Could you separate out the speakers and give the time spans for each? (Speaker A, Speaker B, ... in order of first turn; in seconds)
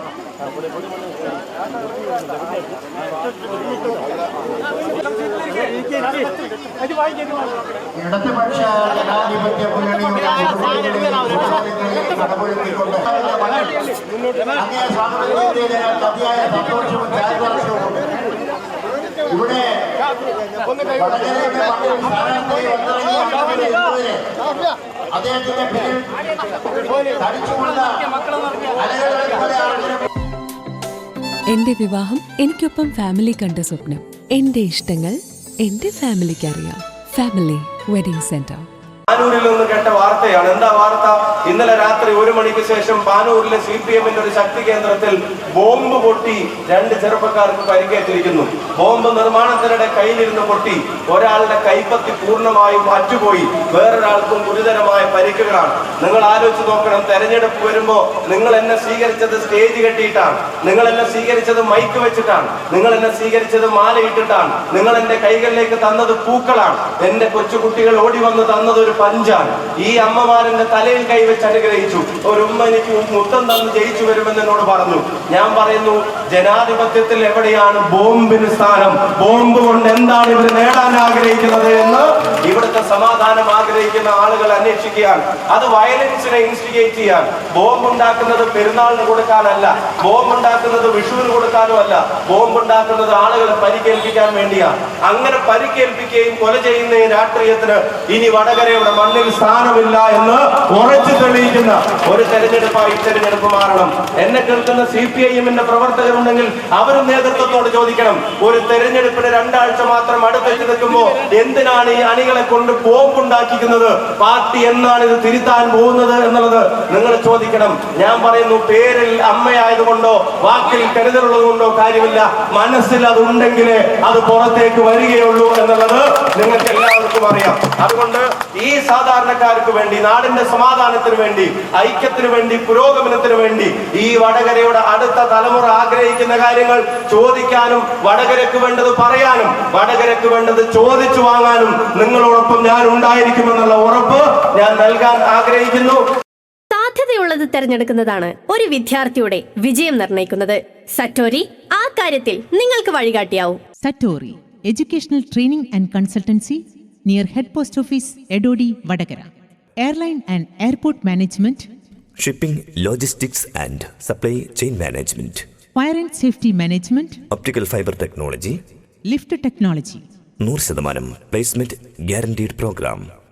Speaker A: 8.0-13.8, 14.6-18.1, 19.3-19.9, 20.9-24.2, 25.1-26.1, 27.1-28.1, 28.7-30.1
Speaker B: 31.5-38.7
Speaker C: 39.1-146.0
Speaker D: 146.7-153.6
Speaker E: 153.8-161.7, 165.8-167.2, 169.1-170.0
Speaker F: 162.2-165.4, 167.3-168.6, 170.4-173.0